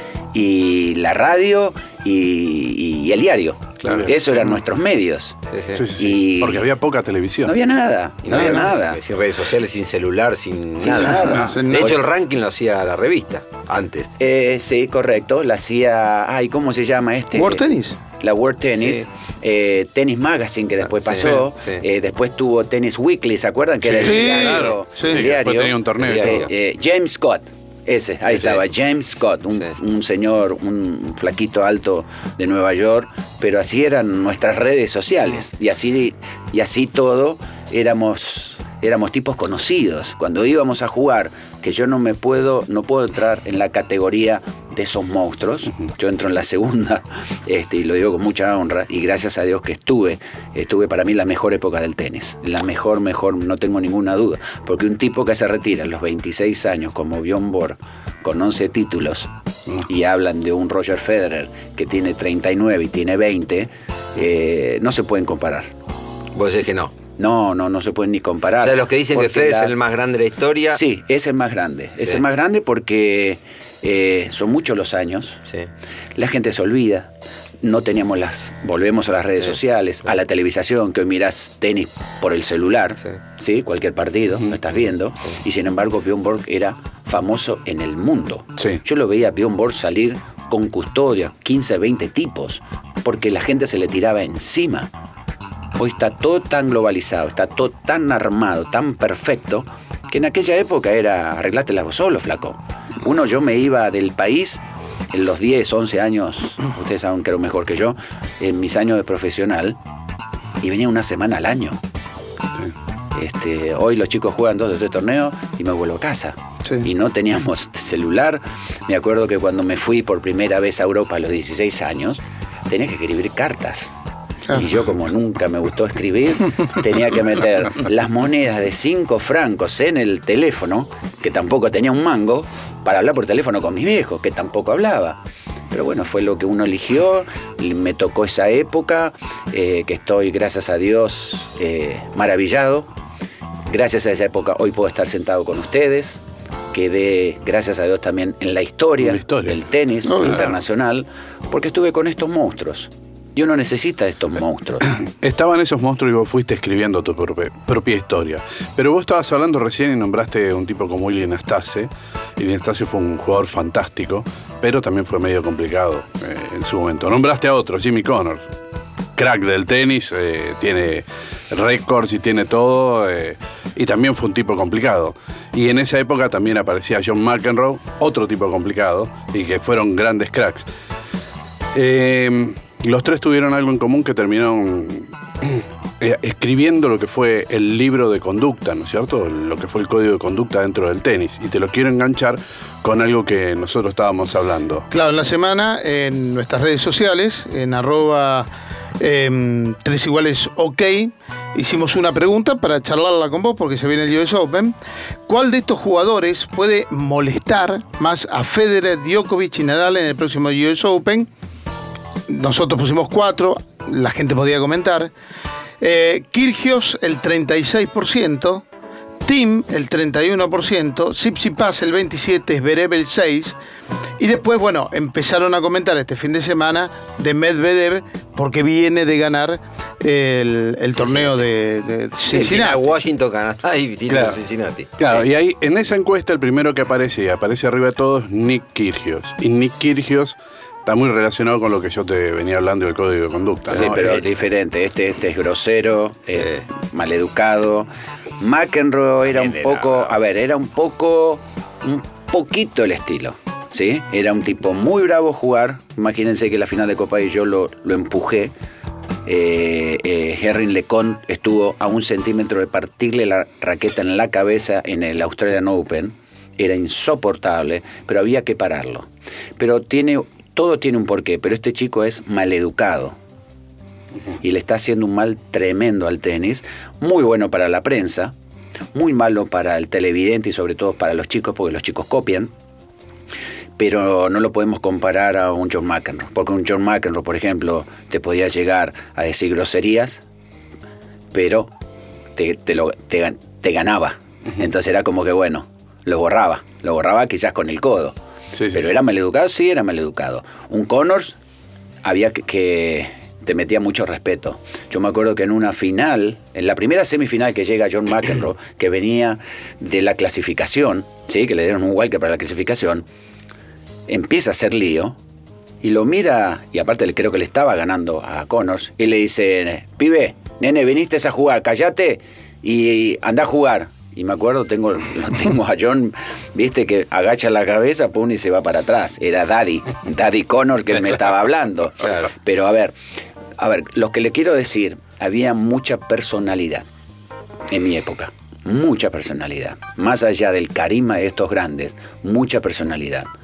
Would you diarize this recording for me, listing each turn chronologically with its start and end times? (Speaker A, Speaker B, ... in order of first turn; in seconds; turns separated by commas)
Speaker A: 0.3-5.4, Speaker B: 3.8-4.1, Speaker B: 5.5-5.8, Speaker C: 5.8-7.5, Speaker A: 6.0-6.7, Speaker A: 7.4-9.0, Speaker B: 8.2-14.2, Speaker A: 10.8-12.0, Speaker D: 10.8-12.0, Speaker A: 14.2-17.7, Speaker D: 17.3-18.0, Speaker A: 18.2-65.7, Speaker B: 18.8-19.1, Speaker B: 21.0-21.8, Speaker C: 23.8-26.5, Speaker D: 24.0-25.3, Speaker B: 66.3-66.9, Speaker A: 67.2-69.8, Speaker B: 68.6-70.8, Speaker A: 70.7-75.4, Speaker A: 76.2-77.1, Speaker A: 77.6-94.9, Speaker A: 95.8-109.8, Speaker A: 110.6-111.8, Speaker A: 113.1-124.0, Speaker A: 124.5-142.9, Speaker A: 143.7-154.8, Speaker C: 149.0-149.6, Speaker D: 150.1-150.4, Speaker C: 150.3-150.5, Speaker C: 154.9-168.5, Speaker C: 169.2-180.7, Speaker C: 181.7-194.9, Speaker D: 194.9-198.5, Speaker D: 199.0-204.8, Speaker D: 205.3-211.3, Speaker D: 212.3-215.1, Speaker D: 215.8-218.6, Speaker D: 219.2-223.6, Speaker D: 224.2-232.9, Speaker B: 230.9-231.4, Speaker B: 232.3-235.3, Speaker C: 234.1-234.4, Speaker C: 235.0-244.2, Speaker A: 243.7-258.5, Speaker B: 243.8-244.1, Speaker B: 246.4-246.7, Speaker B: 249.4-250.1, Speaker A: 259.3-273.2, Speaker A: 274.4-278.4, Speaker A: 278.9-282.5, Speaker A: 283.8-290.2, Speaker A: 291.3-291.7, Speaker A: 292.4-298.2, Speaker C: 298.6-298.9, Speaker A: 298.7-301.4, Speaker A: 302.0-313.1, Speaker A: 314.1-315.2, Speaker A: 315.8-332.9, Speaker A: 333.6-336.9, Speaker A: 337.7-343.3